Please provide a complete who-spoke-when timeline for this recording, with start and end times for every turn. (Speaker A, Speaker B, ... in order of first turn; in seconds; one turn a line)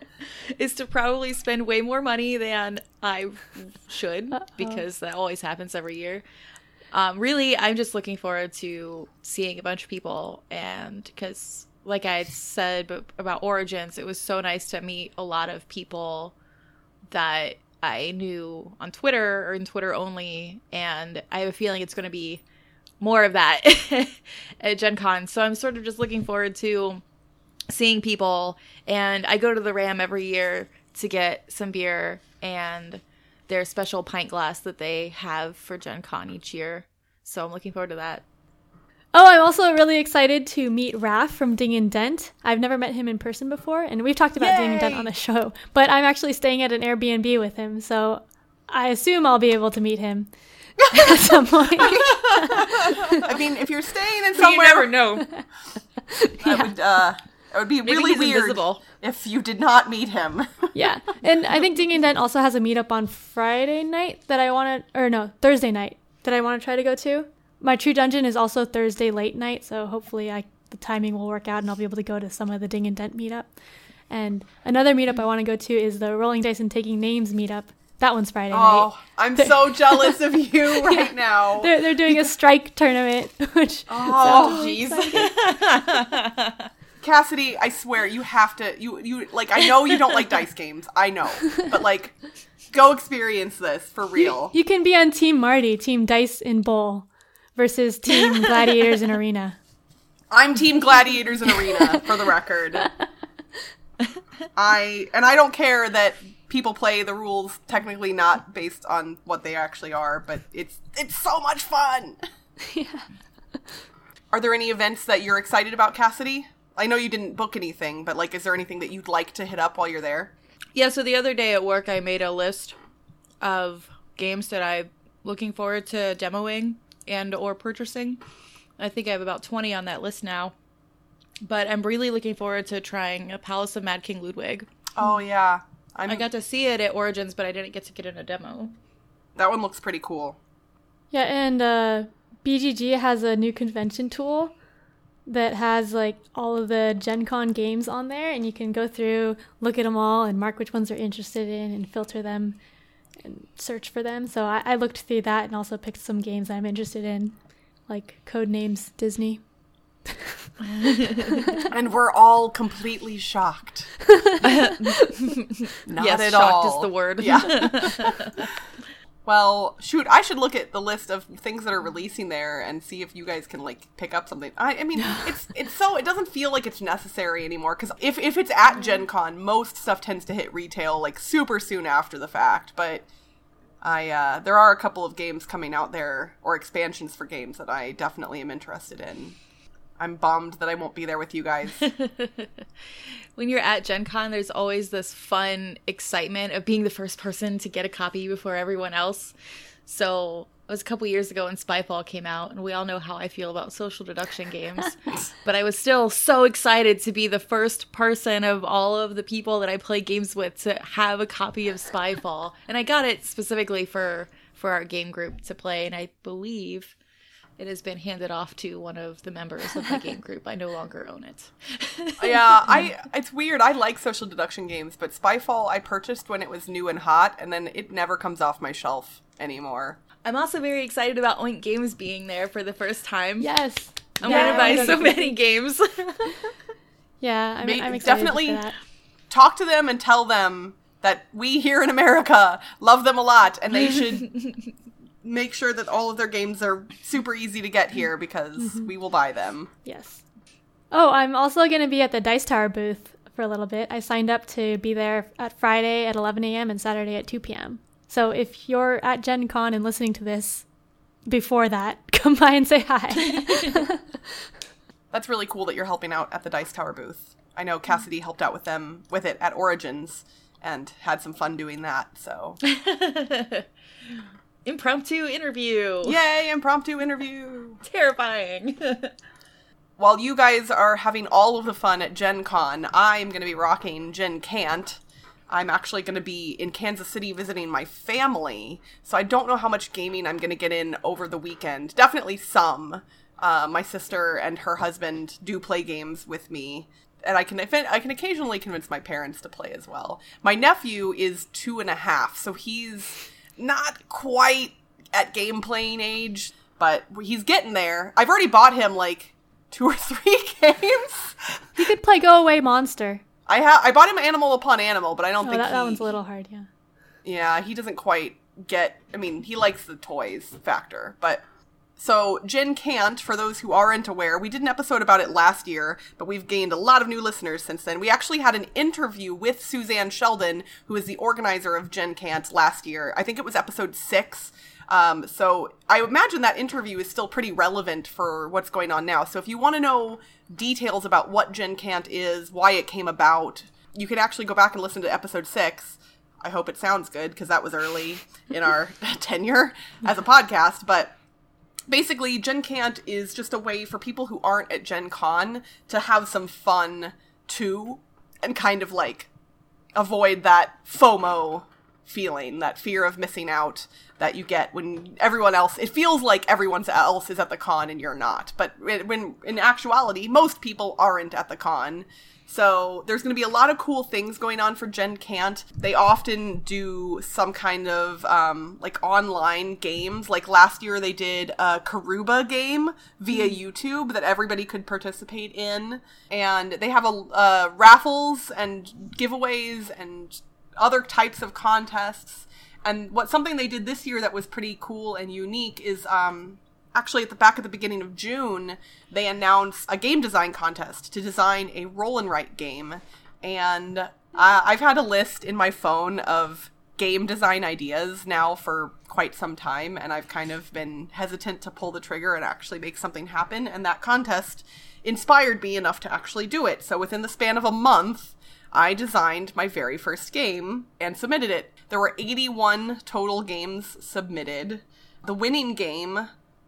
Speaker A: 0.2-6.2
Speaker B: 4.5-4.8
Speaker A: 6.9-16.3
Speaker A: 17.1-22.4
Speaker A: 23.0-27.0
Speaker A: 27.7-38.2
Speaker B: 39.1-50.3
Speaker A: 44.4-45.1
Speaker B: 50.8-53.0
Speaker A: 52.1-53.3
Speaker C: 52.1-54.9
Speaker A: 54.3-55.3
Speaker B: 56.2-56.7
Speaker C: 56.4-60.7
Speaker A: 57.9-58.8
Speaker B: 60.8-73.5
Speaker B: 74.1-80.2
Speaker C: 78.5-82.1
Speaker B: 80.8-85.3
Speaker C: 83.9-85.3
Speaker A: 84.3-86.7
Speaker C: 87.0-92.2
Speaker A: 89.9-90.3
Speaker C: 92.7-94.5
Speaker B: 94.2-99.6
Speaker A: 98.3-98.7
Speaker C: 100.3-102.9
Speaker B: 101.6-102.0
Speaker C: 104.5-112.2
Speaker B: 112.6-113.1
Speaker C: 114.3-120.3
Speaker A: 120.8-122.8
Speaker A: 123.4-128.2
Speaker A: 128.8-130.5
Speaker A: 131.4-134.7
Speaker C: 135.0-136.3
Speaker A: 136.1-138.7
Speaker C: 139.4-140.4
Speaker B: 141.1-144.5
Speaker B: 145.3-152.6
Speaker B: 153.2-157.3
Speaker B: 157.9-159.4
Speaker A: 160.6-161.5
Speaker C: 161.7-164.0
Speaker B: 164.1-165.1
Speaker A: 164.4-168.3
Speaker C: 165.9-168.4
Speaker B: 167.3-167.9
Speaker C: 169.2-183.1
Speaker C: 183.8-189.4
Speaker C: 190.0-191.9
Speaker A: 191.8-192.7
Speaker A: 193.4-217.0
Speaker A: 217.6-222.9
Speaker C: 222.2-230.0
Speaker A: 230.2-233.5
Speaker B: 233.4-235.3
Speaker A: 234.2-236.5
Speaker C: 234.2-235.0
Speaker B: 237.2-238.8
Speaker C: 237.6-238.6
Speaker C: 239.3-244.5
Speaker C: 245.2-249.7
Speaker B: 248.6-248.9
Speaker B: 249.8-250.2
Speaker B: 250.9-260.7
Speaker B: 261.3-264.1
Speaker A: 263.2-263.8
Speaker C: 265.1-272.6
Speaker A: 272.6-276.2
Speaker C: 276.0-277.8
Speaker A: 277.8-279.1
Speaker C: 280.0-285.0
Speaker C: 285.5-311.6
Speaker B: 311.8-313.2
Speaker C: 313.5-316.1
Speaker B: 315.4-316.7
Speaker C: 317.2-321.4
Speaker C: 322.0-351.1
Speaker C: 351.9-359.3
Speaker C: 360.0-426.3